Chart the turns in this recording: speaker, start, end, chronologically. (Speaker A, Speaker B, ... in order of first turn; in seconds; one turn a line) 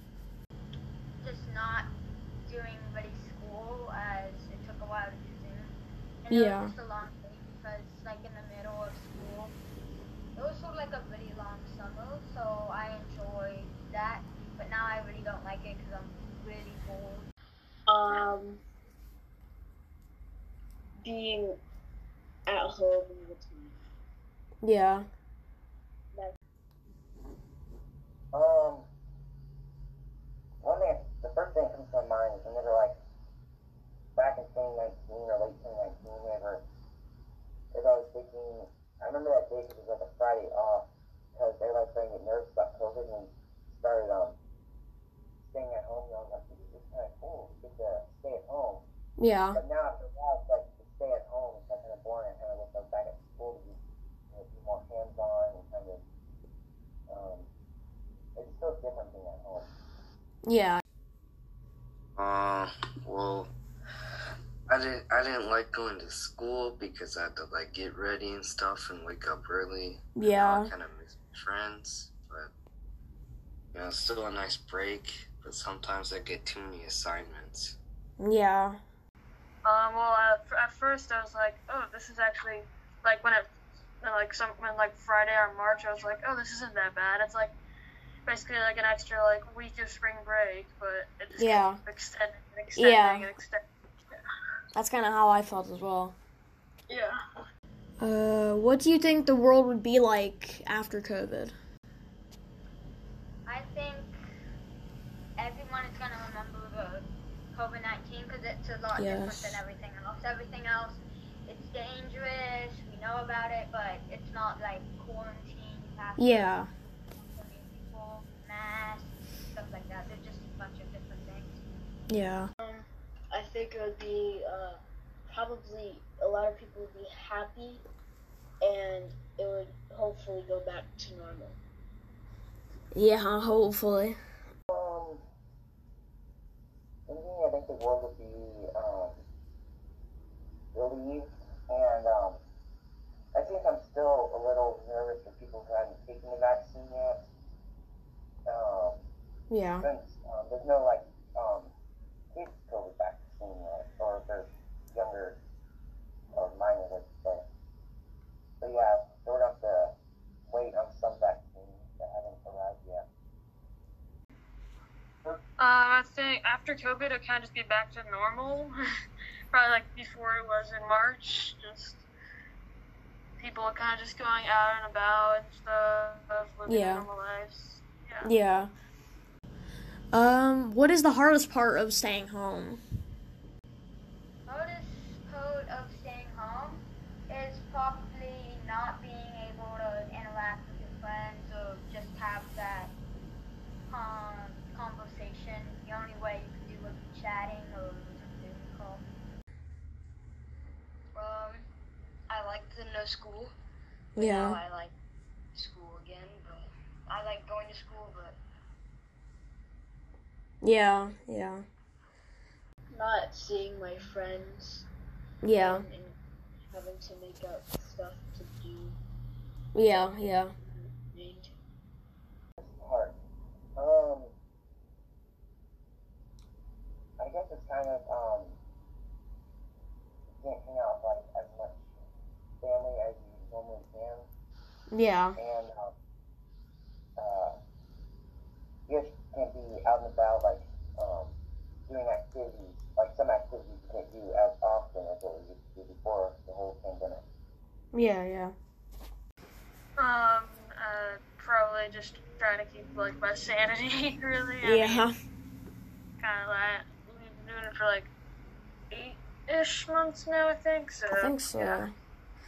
Speaker A: 1.2-1.9
Speaker A: 2.5-9.5
Speaker B: 6.3-6.7
Speaker A: 10.3-17.3
Speaker C: 17.9-18.6
Speaker C: 21.0-21.6
Speaker C: 22.4-23.8
Speaker B: 24.6-25.1
Speaker D: 28.3-28.9
Speaker D: 30.6-32.9
Speaker D: 34.1-36.6
Speaker D: 37.7-44.4
Speaker D: 45.4-48.8
Speaker B: 49.2-49.6
Speaker D: 49.5-53.8
Speaker D: 54.3-56.0
Speaker D: 57.1-57.5
Speaker D: 58.4-59.7
Speaker B: 60.4-60.8
Speaker E: 62.2-63.5
Speaker E: 64.7-72.5
Speaker B: 70.2-70.7
Speaker E: 73.8-77.8
Speaker B: 78.2-78.8
Speaker F: 79.6-83.5
Speaker F: 84.0-87.5
Speaker F: 88.2-93.6
Speaker B: 91.4-91.8
Speaker B: 92.8-93.2
Speaker B: 94.7-96.2
Speaker B: 98.0-101.5
Speaker A: 103.4-104.1
Speaker A: 105.4-116.5
Speaker B: 109.0-109.6
Speaker B: 116.2-116.7
Speaker A: 117.2-121.6
Speaker B: 122.1-122.5
Speaker C: 122.6-127.8
Speaker C: 128.6-131.6
Speaker B: 132.9-134.2
Speaker D: 134.7-135.2
Speaker D: 137.1-139.2
Speaker D: 140.7-142.4
Speaker D: 143.3-147.2
Speaker D: 148.4-149.0
Speaker B: 149.5-149.8
Speaker D: 149.8-151.7
Speaker D: 152.3-155.4
Speaker D: 156.3-157.4
Speaker D: 158.6-159.9
Speaker D: 160.5-163.1
Speaker F: 165.6-168.7
Speaker F: 169.5-172.0
Speaker F: 173.4-178.3
Speaker B: 176.7-177.1
Speaker B: 178.2-178.7
Speaker B: 180.1-182.8
Speaker A: 184.4-192.9
Speaker A: 193.9-199.0
Speaker G: 201.1-201.6
Speaker G: 202.3-203.5
Speaker B: 204.2-204.6
Speaker G: 204.2-204.9
Speaker G: 205.5-208.3
Speaker B: 210.6-211.6
Speaker C: 212.9-214.9
Speaker B: 215.4-215.9
Speaker C: 215.5-219.0
Speaker B: 219.7-220.5
Speaker C: 220.7-221.5
Speaker D: 222.6-223.2
Speaker D: 223.8-224.3
Speaker D: 227.2-228.6
Speaker D: 230.3-231.8
Speaker D: 232.6-234.3
Speaker B: 234.9-235.4
Speaker D: 235.3-235.9
Speaker D: 237.2-237.6
Speaker D: 238.9-241.3
Speaker D: 241.9-247.2
Speaker B: 247.9-248.5
Speaker F: 250.0-255.0
Speaker B: 254.6-255.1
Speaker F: 256.2-258.1
Speaker F: 258.9-261.8
Speaker B: 261.1-261.9